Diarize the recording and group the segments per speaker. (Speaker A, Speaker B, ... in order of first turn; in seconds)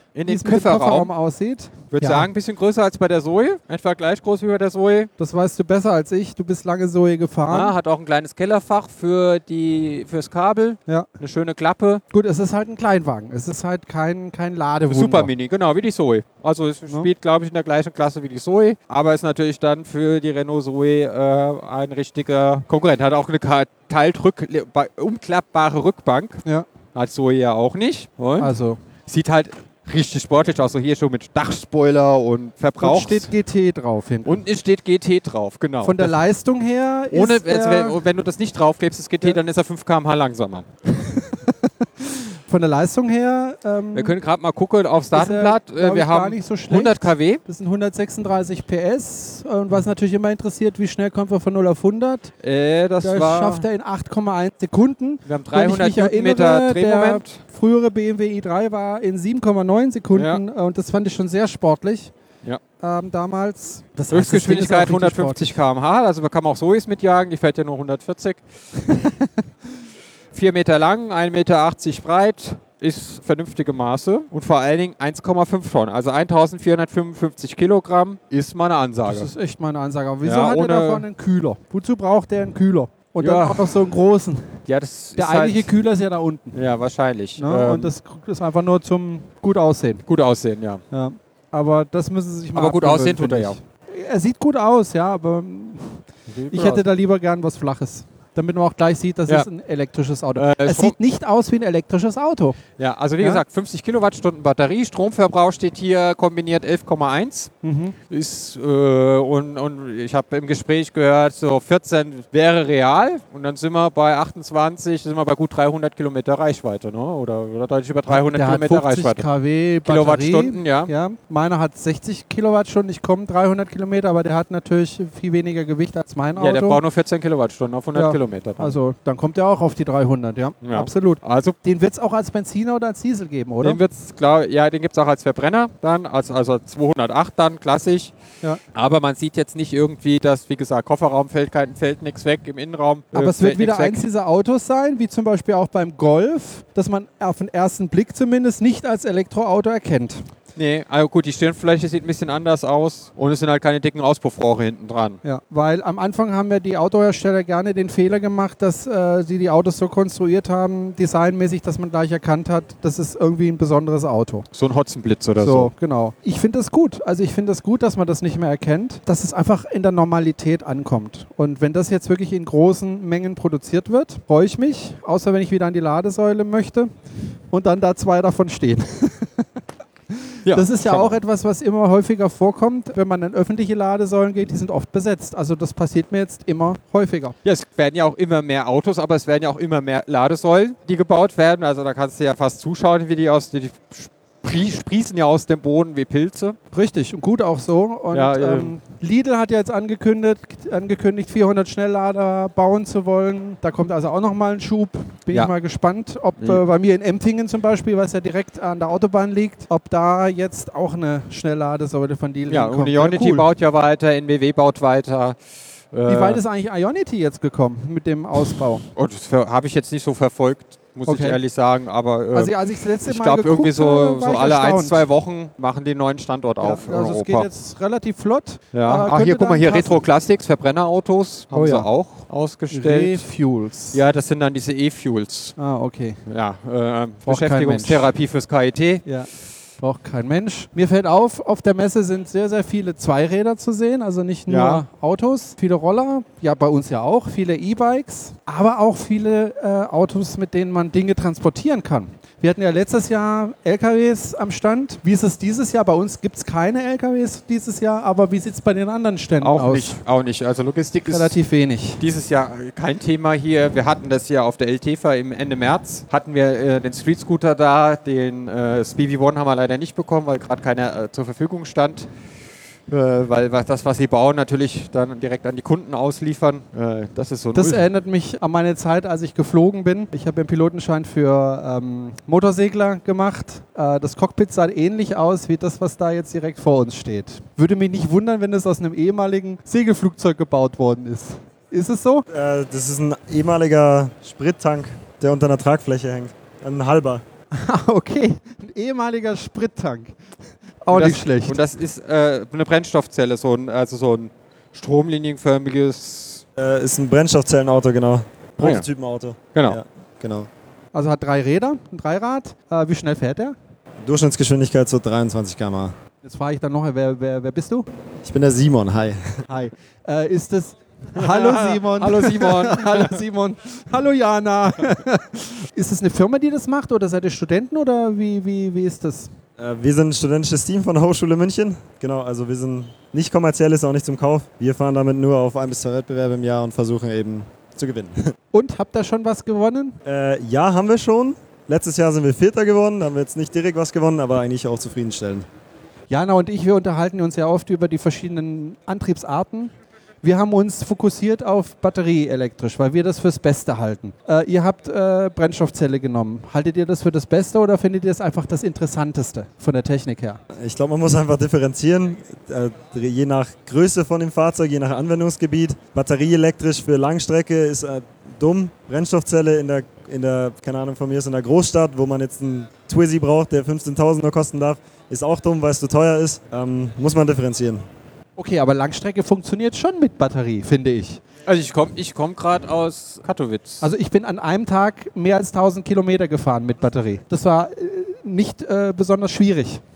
Speaker A: 0.1-1.1, 1.9-5.1, 7.5-12.0, 14.9-26.4, 26.9-28.5, 29.1-33.3, 34.2-36.1, 37.1-40.7, 43.9-47.4, 52.4-53.6, 55.2-57.4, 60.1-60.4, 64.1-68.9, 70.3-79.3, 80.2-81.0, 83.2-83.7, 84.7-85.7, 86.5-87.9, 90.0-90.8, 92.5-93.6, 96.3-96.8, 100.3-100.9, 102.8-107.5, 108.1-119.2, 119.8-120.9, 126.3-128.8, 130.6-131.6, 133.6-138.1, 138.7-144.0, 150.6-155.2, 164.5-165.7, 180.4-181.2, 187.4-196.6, 198.1-198.7, 212.5-215.4, 215.9-216.4, 218.9-227.5, 228.7-233.2, 233.9-235.5, 236.2-239.0, 244.5-244.8, 259.4-261.4, 262.0-272.1, 272.9-277.9, 300.9-306.4, 308.6-308.9, 321.1-323.2, 381.4-383.9
Speaker B: 0.2-2.3, 5.2-7.7, 12.1-15.3, 28.4-28.8, 32.8-34.4, 35.8-38.0, 41.0-44.1, 45.1-52.3, 53.0-62.1, 62.8-65.5, 79.0-84.6, 85.2-86.6, 87.4-90.0, 90.9-102.6, 107.6-108.0, 118.1-126.8, 127.9-133.8, 143.1-150.2, 155.2-164.4, 165.4-176.9, 177.5-179.4, 180.1-187.3, 196.7-213.4, 216.1-218.8, 221.1-221.4, 222.3-225.1, 226.6-230.0, 231.5-231.9, 232.7-234.0, 235.6-236.2, 237.2-238.1, 239.0-260.0, 261.1-262.0, 277.5-292.2, 297.5-300.2, 300.8-301.6, 310.9-313.6, 316.2-317.9, 319.5-329.3, 338.5-340.0, 346.1-360.4, 378.4-381.2, 383.8-389.8
Speaker C: 292.3-297.2, 306.6-310.5, 314.0-315.9, 318.2-319.4, 329.6-338.3, 340.0-345.5, 360.5-377.8